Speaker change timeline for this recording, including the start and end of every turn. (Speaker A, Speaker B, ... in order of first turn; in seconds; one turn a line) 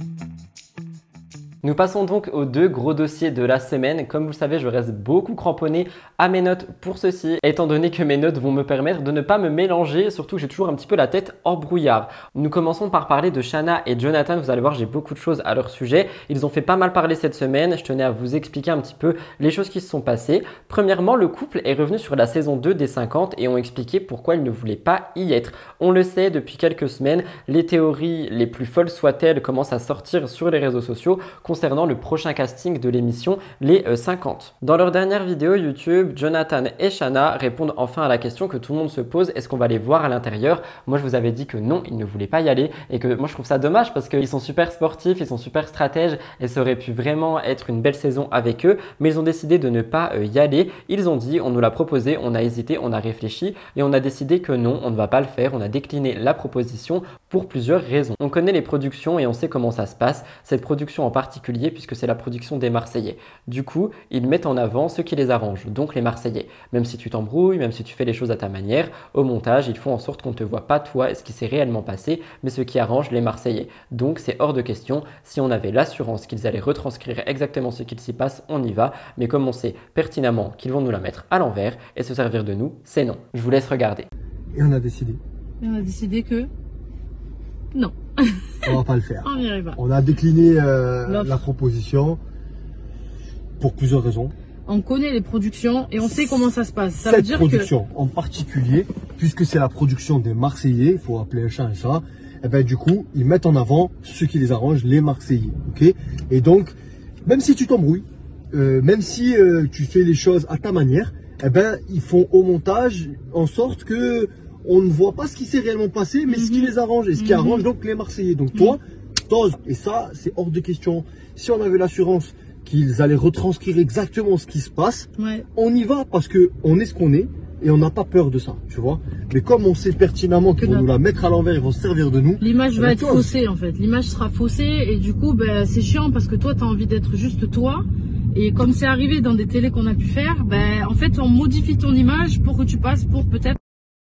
Speaker A: 1.6-84.1
Speaker B: 84.5-85.2
Speaker C: 85.6-86.5
Speaker C: 87.7-89.8
Speaker B: 88.6-92.2
Speaker C: 91.1-91.4
Speaker B: 93.6-94.3
Speaker C: 94.7-97.7
Speaker B: 97.0-106.7
Speaker B: 107.2-133.3
Speaker C: 116.2-117.7
Speaker C: 118.5-118.8
Speaker C: 125.2-125.4
Speaker C: 130.6-130.9
Speaker C: 132.4-143.6